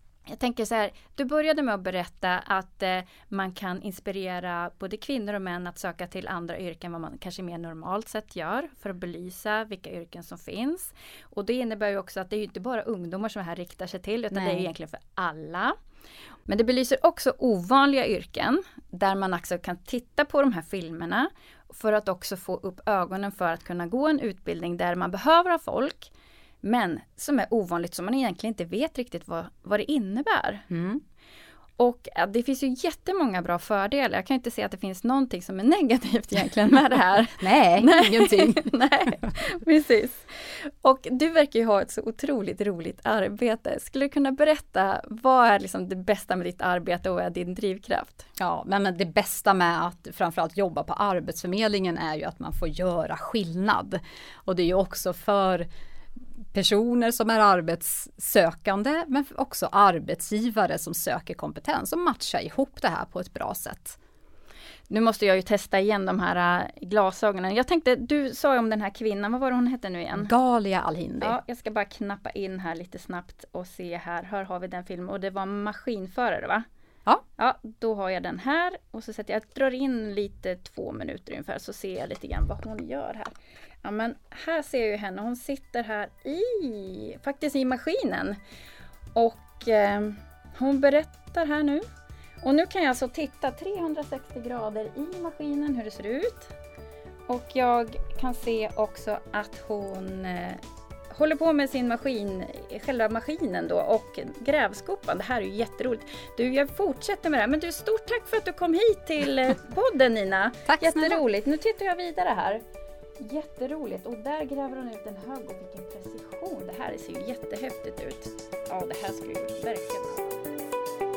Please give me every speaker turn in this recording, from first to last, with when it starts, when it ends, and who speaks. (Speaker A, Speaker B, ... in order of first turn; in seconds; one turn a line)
Speaker A: 0.3-15.7
Speaker B: 14.3-14.7
Speaker A: 16.5-26.1
Speaker A: 26.6-30.6
Speaker B: 30.7-31.0
Speaker A: 31.8-48.3
Speaker B: 37.4-38.7
Speaker B: 48.4-55.7
Speaker B: 56.5-64.0
Speaker A: 64.9-70.3
Speaker B: 70.2-71.4
Speaker A: 71.2-76.7
Speaker A: 77.4-88.4
Speaker A: 89.1-91.8
Speaker A: 92.4-96.5
Speaker A: 97.3-112.6
Speaker B: 110.7-111.2
Speaker A: 113.2-120.4